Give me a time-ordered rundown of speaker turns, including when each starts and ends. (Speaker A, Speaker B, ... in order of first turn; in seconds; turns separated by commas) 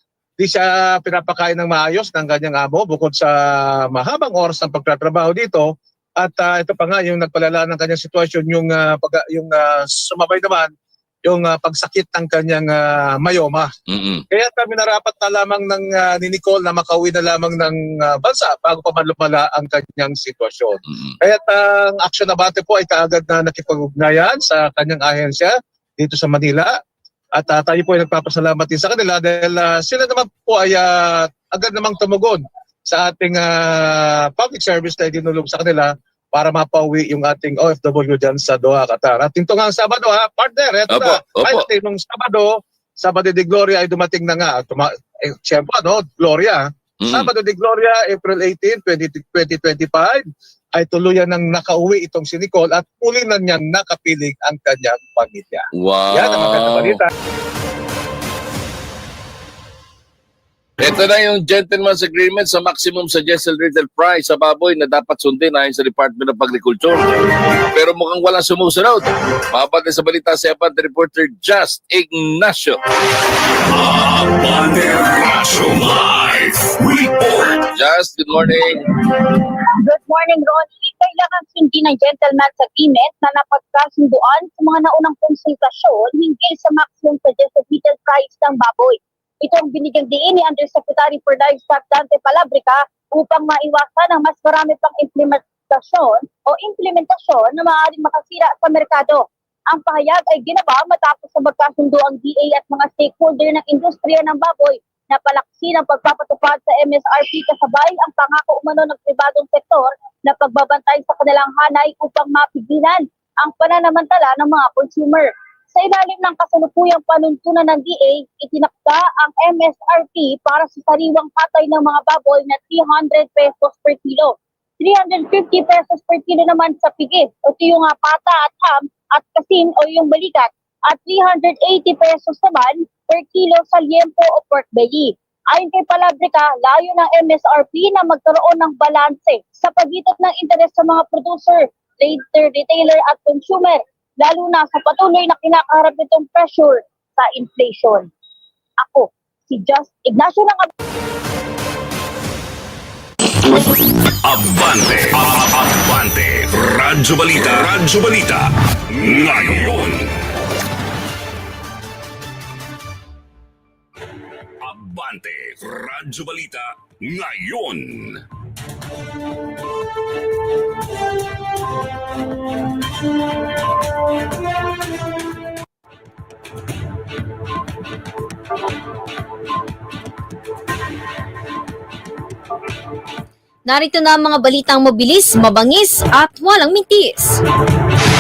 Speaker A: 0.4-10.7, Speaker A: 11.2-13.7, Speaker B: 13.9-14.2, Speaker A: 14.3-26.8, Speaker A: 27.3-57.1, Speaker B: 40.9-41.6, Speaker B: 47.0-47.3, Speaker B: 55.7-57.0, Speaker B: 60.8-67.1, Speaker B: 67.7-72.8, Speaker C: 73.7-77.6, Speaker B: 77.6-78.9, Speaker D: 79.8-148.1, Speaker D: 148.8-150.7, Speaker C: 154.2-160.1, Speaker C: 164.6-168.2, Speaker E: 183.7-187.4